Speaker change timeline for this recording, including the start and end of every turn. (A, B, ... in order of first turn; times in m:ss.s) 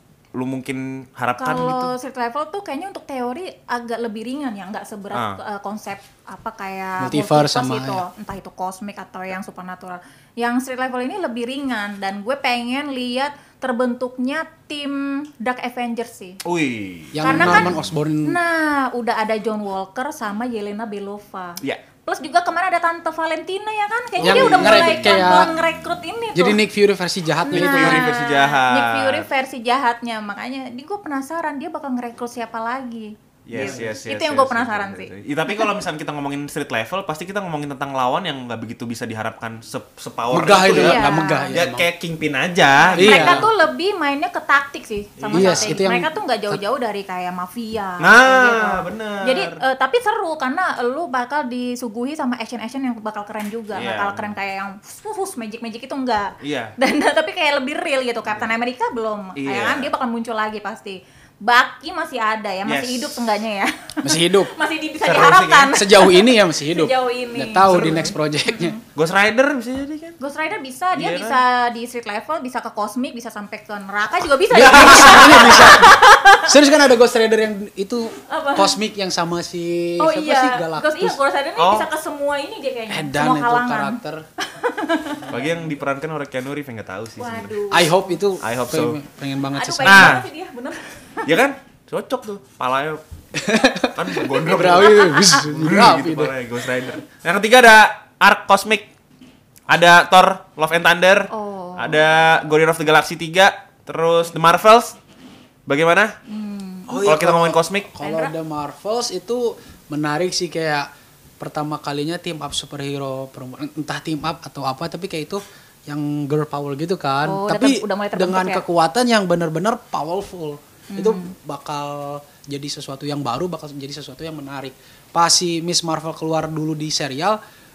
0:00.3-0:01.9 A
0:01.4-0:16.4 B
0:05.1-0:05.4 A
0:07.0-0:08.0 C
0:16.4-0:17.8 A
0:17.1-0:18.4 C
0:17.2-0:17.7 B
0:18.2-0:26.6 B
0:24.2-0:25.5 A
0:24.2-0:25.5 C
0:26.4-0:28.1 C
0:27.4-0:35.7 B
0:27.5-0:29.3 A
0:33.5-0:43.5 A
0:33.5-0:33.9 C
0:40.3-0:41.9 C
0:40.8-0:41.5 B
0:42.8-1:08.8 B
0:42.9-0:43.5 C
0:45.2-0:45.8 A
0:45.3-0:46.6 C
0:48.0-0:49.6 A
0:53.7-0:54.3 A
0:56.4-0:56.8 A
0:59.4-0:59.9 A
1:02.6-1:03.2 A
1:04.0-1:04.5 C
1:05.0-1:05.8 A
1:05.7-1:08.8 C
1:07.6-1:08.1 A
1:08.9-1:10.2 A
1:10.2-1:16.5 B
1:10.9-1:11.4 A
1:14.5-1:21.2 C
1:14.8-1:15.7 A
1:18.3-1:18.8 B
1:20.0-1:25.3 B
1:21.6-1:21.9 A
1:22.9-1:24.3 C
1:25.3-1:27.6 A
1:27.2-1:28.2 B
1:27.7-1:30.2 C
1:28.4-1:29.0 A
1:29.5-1:30.9 B
1:29.8-1:30.3 A
1:31.2-1:33.0 A
1:33.3-1:36.4 C
1:33.9-1:38.9 A
1:34.7-1:35.4 B
1:39.7-1:45.0 A
1:41.3-1:42.0 B
1:45.7-1:46.2 A
1:46.3-1:47.1 B
1:46.9-1:50.9 C
1:47.0-1:47.9 A
1:48.0-1:48.3 B
1:51.4-2:07.4 C
1:57.2-1:58.6 B
2:00.9-2:01.3 B